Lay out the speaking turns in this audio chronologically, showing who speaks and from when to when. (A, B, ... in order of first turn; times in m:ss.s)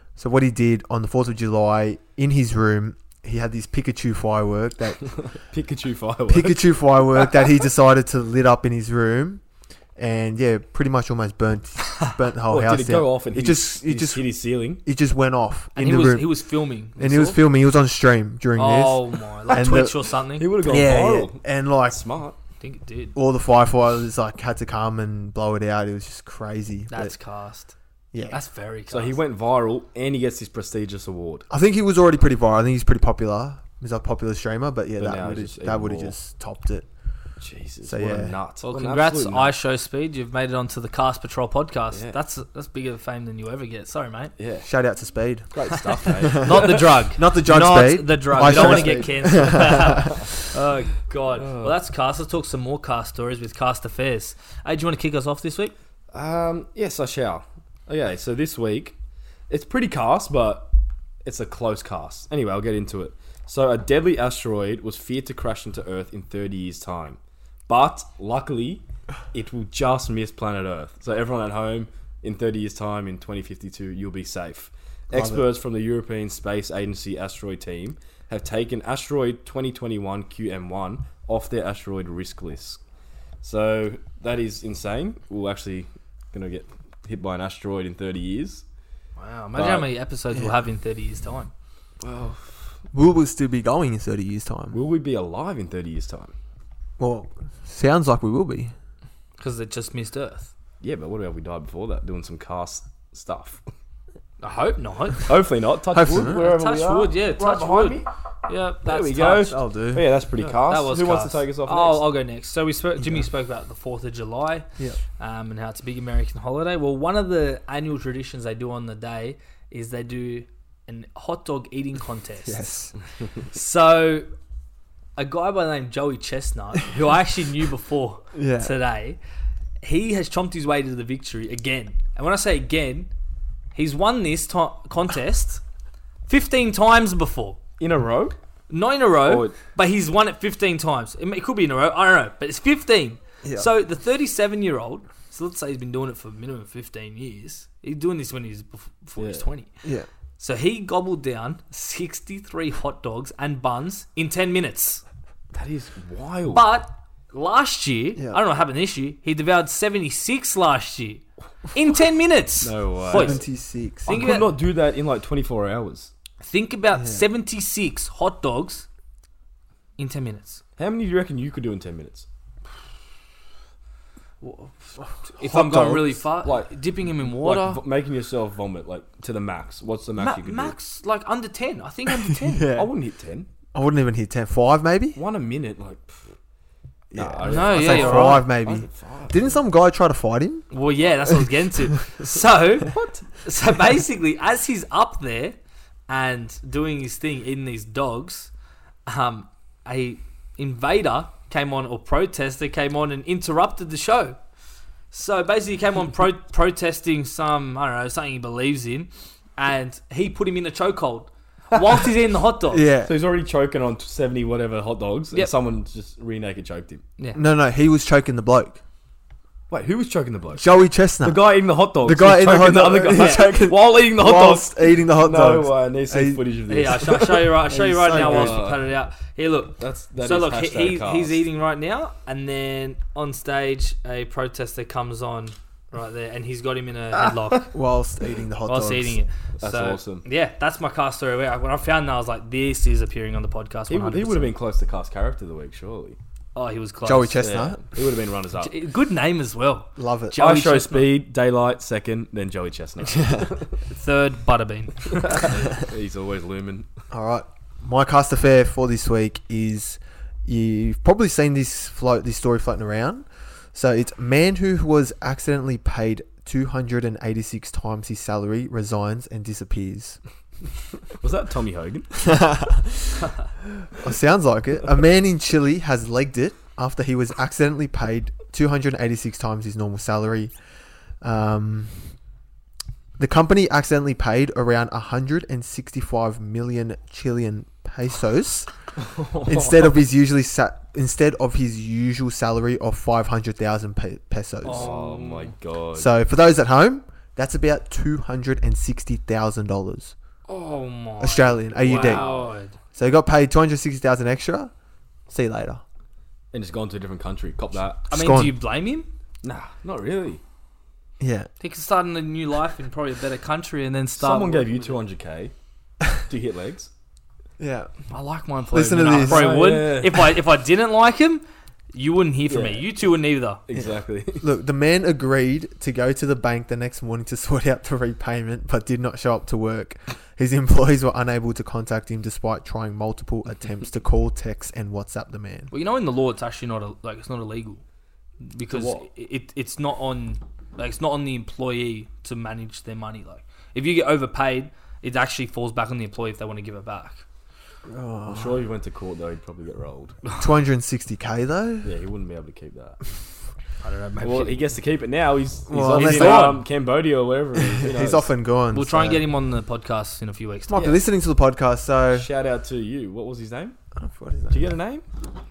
0:00.2-0:05.1 A
0:05.1-0:06.7 B
0:06.3-0:09.4 A
0:10.0-0:14.3 A
0:12.5-0:14.8 B
0:14.8-0:16.3 A
0:15.8-0:17.4 C
0:17.0-0:20.0 A
0:18.6-0:20.5 C
0:20.4-0:22.4 B
0:20.6-0:22.0 A
0:22.6-0:23.2 C
0:23.1-0:27.1 A
0:26.9-0:27.7 C
0:28.1-0:28.4 A
0:28.3-0:29.2 C
0:28.9-0:31.5 B
0:31.5-0:36.9 A
0:35.0-0:36.1 B
0:37.4-0:39.5 B
0:37.8-0:38.4 A
0:38.6-0:44.3 C
0:41.9-0:42.2 B
0:44.4-0:44.7 B
0:44.6-0:50.2 A
0:45.5-0:47.0 B
0:46.3-0:55.7 C
0:48.3-0:49.2 B
0:51.4-0:51.8 B
0:56.1-0:58.9 B
0:59.5-1:00.7 B
1:01.2-1:22.8 B
1:15.1-1:15.4 A
1:23.4-1:28.6 B
1:29.2-1:31.5 C
1:29.6-1:29.9 B
1:32.0-1:32.7 B
1:32.9-1:34.8 A
1:34.7-1:36.3 B
1:37.0-1:38.7 A
1:39.4-1:40.5 C
1:40.8-1:43.6 B
1:44.4-1:45.3 C
1:45.2-1:48.1 B
1:45.9-1:46.4 A
1:46.1-1:49.6 C
1:48.8-1:52.0 B
1:49.5-1:50.0 A
1:50.4-2:02.8 C
2:02.4-2:02.9 A
2:03.4-2:04.3 C
2:05.2-2:09.2 C
2:08.3-2:08.7 A
2:09.8-2:13.1 C
2:13.7-2:15.6 C
2:16.3-2:17.6 C
2:17.8-2:18.4 B
2:18.7-2:29.7 C
2:19.2-2:19.6 B
2:29.2-2:29.4 B
2:29.8-2:30.1 A
2:30.4-2:35.0 C
2:35.5-2:36.7 B
2:36.5-2:43.4 C
2:42.6-2:43.4 B
2:43.1-2:44.3 A
2:44.0-2:46.1 B
2:44.1-2:44.5 C
2:46.4-2:48.8 C
2:47.0-2:47.2 A
2:50.0-2:50.6 C
2:50.8-2:52.3 B
2:54.4-2:57.8 C
2:55.0-2:56.2 A
2:56.4-3:00.7 B
3:00.2-3:02.7 C
3:02.3-3:02.9 A
3:02.7-3:03.5 B
3:03.7-3:05.2 A
3:05.2-3:06.3 B
3:07.1-3:10.7 A
3:07.1-3:09.6 B
3:07.4-3:08.4 C
3:10.7-3:15.6 C
3:12.9-3:13.2 B
3:16.1-3:18.5 C
3:19.1-3:24.4 C
3:25.1-3:32.9 C
3:32.7-3:33.1 A
3:33.0-3:37.0 B
3:37.3-3:38.8 A
3:39.7-3:40.7 B
3:40.6-3:41.4 A
3:41.2-3:48.8 B
3:42.0-3:46.4 A
3:43.1-3:43.4 C
3:46.7-3:57.7 C
3:47.7-3:48.6 A
3:49.8-3:51.4 B
3:57.7-3:59.2 A
3:58.6-4:04.5 C
3:59.6-4:00.2 B
4:03.9-4:06.2 B
4:06.5-4:07.5 C
4:07.0-4:07.8 A
4:07.4-4:08.7 B
4:08.6-4:11.1 C
4:10.0-4:10.4 A
4:10.4-4:13.7 B
4:13.0-4:13.5 A
4:13.9-4:15.5 C
4:15.2-4:16.8 B
4:17.1-4:30.2 A
4:31.1-4:32.3 B
4:32.2-4:33.3 A
4:34.0-4:40.5 A
4:41.2-4:42.1 A
4:43.2-4:48.7 A
4:49.0-4:49.9 B
4:49.4-4:54.9 A
4:54.6-4:55.5 C
4:54.7-4:56.1 B
4:55.9-5:00.1 A
5:00.5-5:02.8 C
5:01.2-5:02.2 A
5:01.8-5:02.5 B
5:02.9-5:04.7 A
5:05.3-5:05.8 A
5:06.5-5:08.0 B
5:08.1-5:08.5 A
5:08.1-5:09.1 C
5:09.4-5:10.4 B
5:11.2-5:11.5 A
5:11.6-5:15.0 C
5:14.2-5:15.5 B
5:16.1-5:16.9 B
5:17.6-5:17.9 A
5:18.1-5:23.6 C
5:18.7-5:19.8 A
5:19.2-5:20.2 B
5:22.5-5:22.9 B
5:23.6-5:24.4 B
5:23.7-5:35.7 A
5:35.7-5:37.8 C
5:38.4-5:47.2 C
5:38.7-5:39.1 B
5:47.8-5:48.7 A
5:48.2-5:50.2 B
5:50.4-5:51.9 A
5:51.8-5:53.0 B
5:53.8-5:54.6 C
5:54.2-5:58.3 B
5:55.7-5:56.7 A
5:55.9-5:56.6 C
5:57.6-5:59.2 A
5:58.7-6:00.9 C
6:00.7-6:02.3 A
6:00.7-6:01.0 B
6:02.1-6:03.8 B
6:04.0-6:04.8 A
6:04.5-6:05.0 B